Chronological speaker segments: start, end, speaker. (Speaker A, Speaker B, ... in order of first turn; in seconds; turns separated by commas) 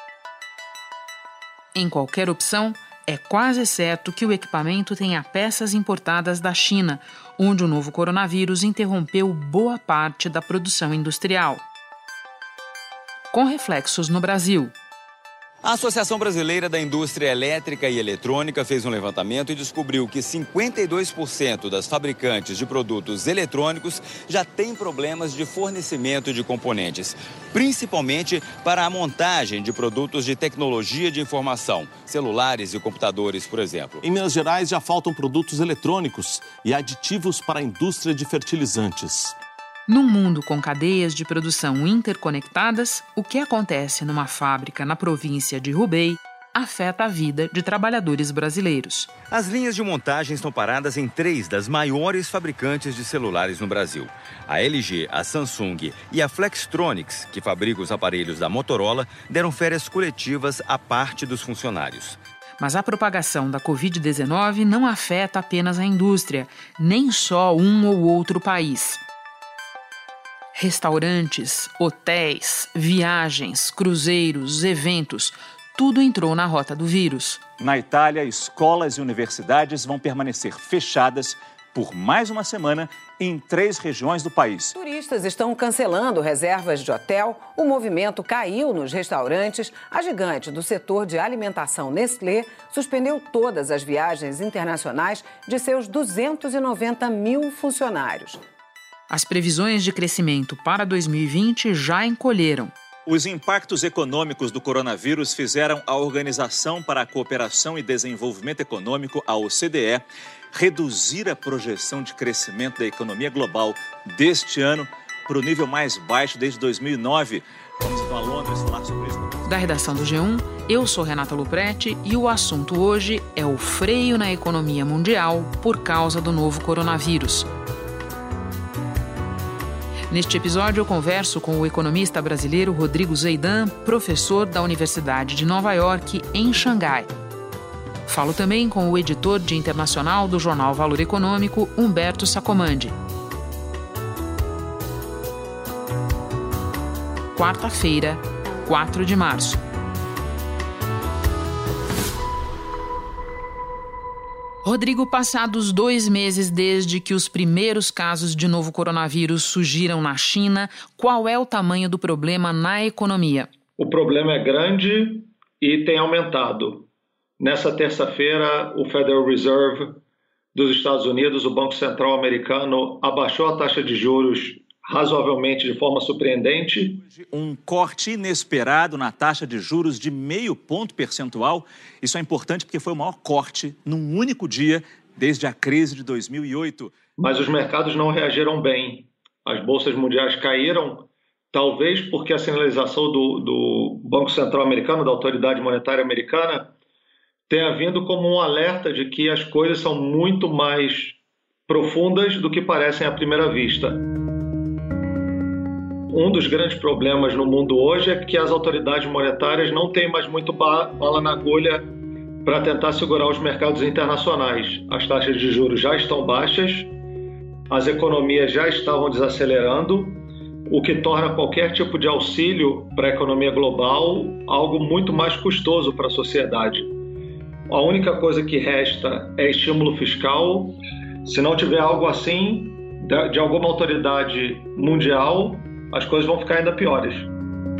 Speaker A: 1.7-11.6, Speaker A: 13.3-14.7, Speaker B: 15.6-34.0, Speaker C: 34.0-39.3, Speaker A: 39.9-49.1, Speaker B: 49.3-62.2, Speaker A: 62.6-69.0, Speaker A: 70.5-77.4, Speaker D: 77.6-84.7, Speaker E: 84.8-98.4, Speaker A: 99.1-102.7, Speaker D: 103.0-119.8, Speaker A: 119.5-127.5, Speaker A: 130.1-137.1, Speaker A: 138.1-142.9, Speaker A: 147.3-149.6, Speaker A: 154.6-163.5, Speaker F: 163.8-166.9, Speaker F: 167.4-170.0, Speaker F: 170.5-177.0, Speaker D: 177.1-186.9, Speaker F: 187.2-196.7, Speaker F: 197.5-201.2, Speaker F: 201.7-204.0, Speaker F: 206.1-216.9, Speaker F: 217.7-226.9, Speaker F: 227.7-237.3